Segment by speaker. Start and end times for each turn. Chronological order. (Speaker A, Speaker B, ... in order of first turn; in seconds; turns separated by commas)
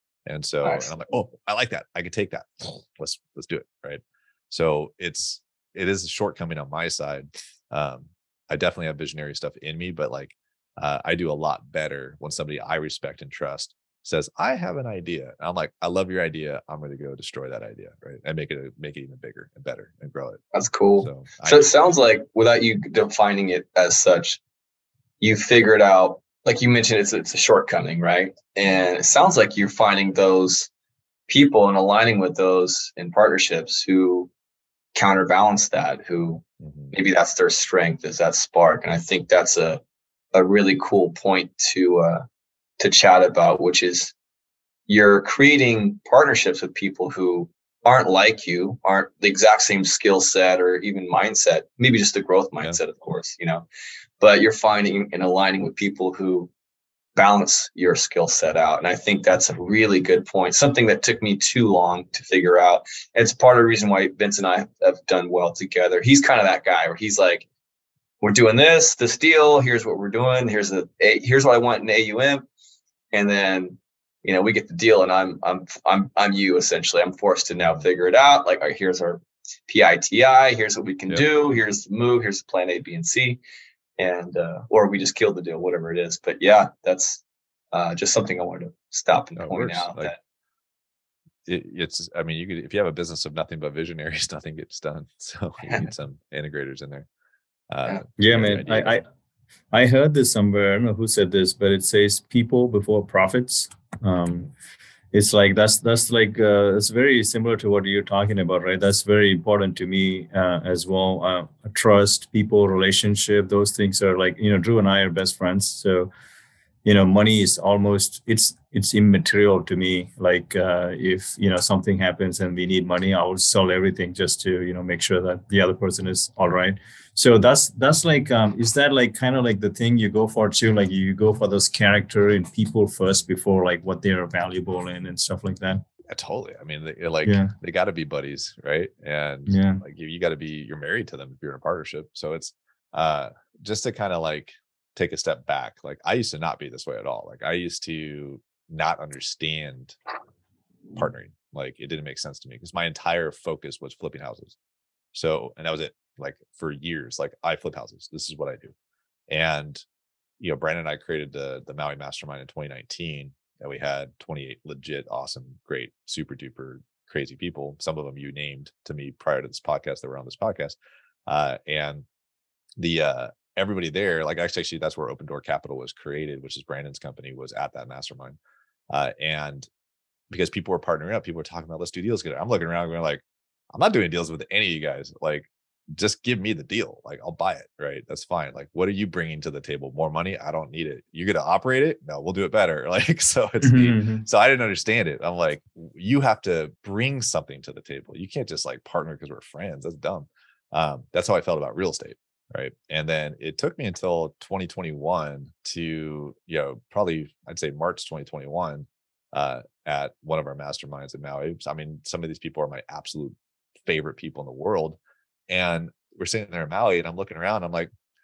Speaker A: 0.3-20.4, Speaker B: 0.6-0.9, Speaker B: 20.5-24.4, Speaker A: 21.0-21.7, Speaker B: 25.2-30.7, Speaker B: 31.3-34.3, Speaker B: 34.9-39.8, Speaker A: 36.6-37.0, Speaker B: 40.3-42.2, Speaker B: 42.8-44.1, Speaker B: 44.9-53.7, Speaker B: 54.2-56.5, Speaker B: 57.1-67.5, Speaker B: 68.2-72.5, Speaker B: 73.1-83.4, Speaker B: 84.0-90.2, Speaker A: 89.4-90.1, Speaker A: 91.5-97.1, Speaker A: 97.7-99.0, Speaker C: 98.2-99.0, Speaker C: 99.7-104.5, Speaker C: 105.1-116.1, Speaker C: 116.8-135.8, Speaker A: 136.1-150.0, Speaker C: 137.2-137.5, Speaker C: 139.5-139.8, Speaker A: 150.9-154.6, Speaker A: 155.1-158.7, Speaker A: 159.3-159.8, Speaker A: 160.4-172.1, Speaker A: 172.8-178.4, Speaker A: 178.9-179.7, Speaker A: 180.3-183.2, Speaker A: 183.7-215.0, Speaker C: 193.6-194.2, Speaker A: 215.5-217.9